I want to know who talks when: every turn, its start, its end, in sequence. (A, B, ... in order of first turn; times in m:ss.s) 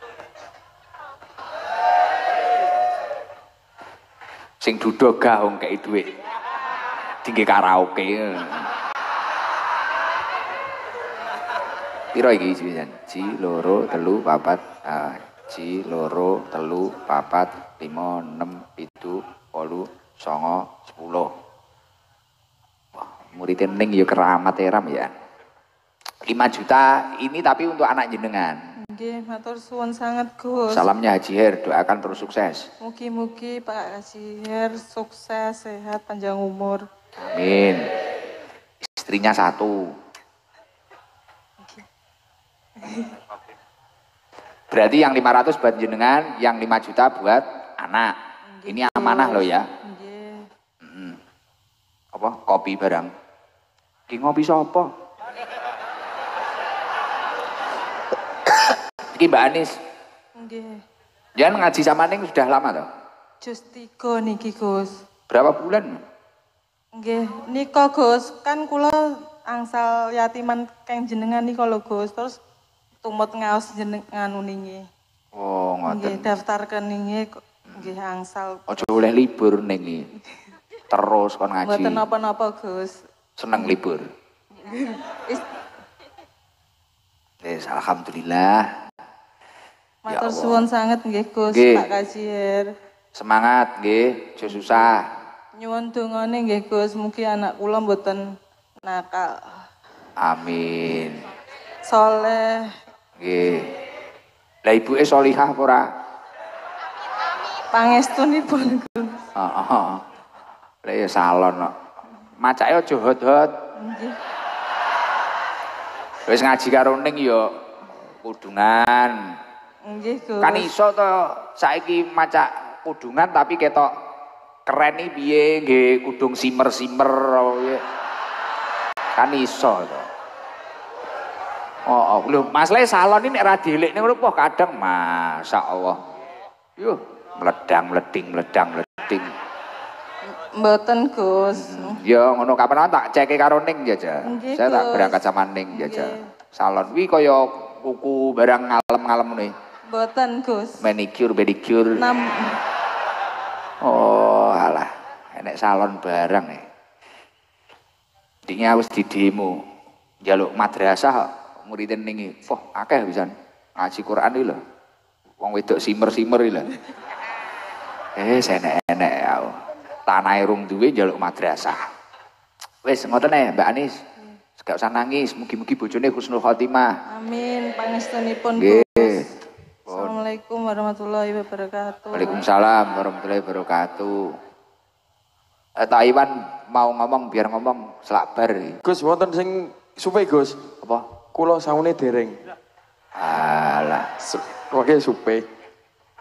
0:04.6-0:06.1 A
0:07.2-0:08.7 A
0:12.1-0:21.3 A
0:22.9-0:25.1 A
0:26.3-0:28.6 A
0:28.8-0:30.9 B
0:30.7-0:32.7 A
0:32.8-0:36.8 B
0:37.3-0:37.8 A
0:38.9-0:39.9 A
0:41.6-0:41.9 B
0:42.8-0:43.2 B
0:44.7-0:48.1 A
0:48.5-0:50.5 B
0:48.7-0:49.6 A
0:50.8-0:51.2 A
0:52.1-0:53.1 A
0:54.1-0:54.9 A
0:58.5-0:59.7 A
1:00.4-1:00.8 B
1:01.4-1:02.9 A
1:03.4-1:05.0 B
1:05.3-1:06.0 A
1:06.9-1:12.4 B
1:13.0-1:14.9 B
1:15.3-1:16.3 A
1:15.8-1:18.8 B
1:18.7-1:20.1 A
1:20.9-1:22.0 A
1:21.6-1:23.0 B
1:23.4-1:24.0 A
1:24.6-1:25.6 B
1:27.4-1:28.7 A
1:30.1-1:32.7 B
1:30.1-1:30.6 A
1:31.5-1:31.9 A
1:33.1-1:35.0 A
1:35.5-1:38.2 B
1:38.8-1:39.6 B
1:40.2-1:41.2 A
1:41.8-1:42.8 B
1:43.2-1:43.7 A
1:44.6-1:45.9 A
1:47.7-1:49.2 B
1:49.3-1:50.0 A
1:50.8-1:51.7 A
1:52.4-1:53.5 A
1:53.8-1:54.2 B
1:56.3-1:57.5 A
1:58.1-1:59.2 A
1:59.8-2:00.7 B
2:00.4-2:03.9 A
2:04.6-2:07.8 A
2:09.2-2:10.1 A
2:11.9-2:16.0 A
2:16.8-2:19.3 A
2:20.3-2:22.0 B
2:21.6-2:29.5 A
2:24.2-2:26.2 B
2:29.9-2:30.9 B
2:30.8-2:32.1 A
2:32.0-2:32.6 B
2:33.8-2:36.6 A
2:38.4-2:39.6 A
2:40.2-2:44.6 A
2:45.4-2:46.7 A
2:48.2-2:51.8 A
2:52.8-2:54.0 A
2:54.6-2:56.9 A
2:57.1-2:59.3 B
2:58.5-2:59.2 A
2:59.9-3:02.4 B
2:59.9-3:00.1 A
3:02.1-3:04.3 A
3:05.8-3:08.8 A
3:08.8-3:10.6 C
3:11.3-3:12.4 C
3:13.2-3:14.1 A
3:14.2-3:15.4 C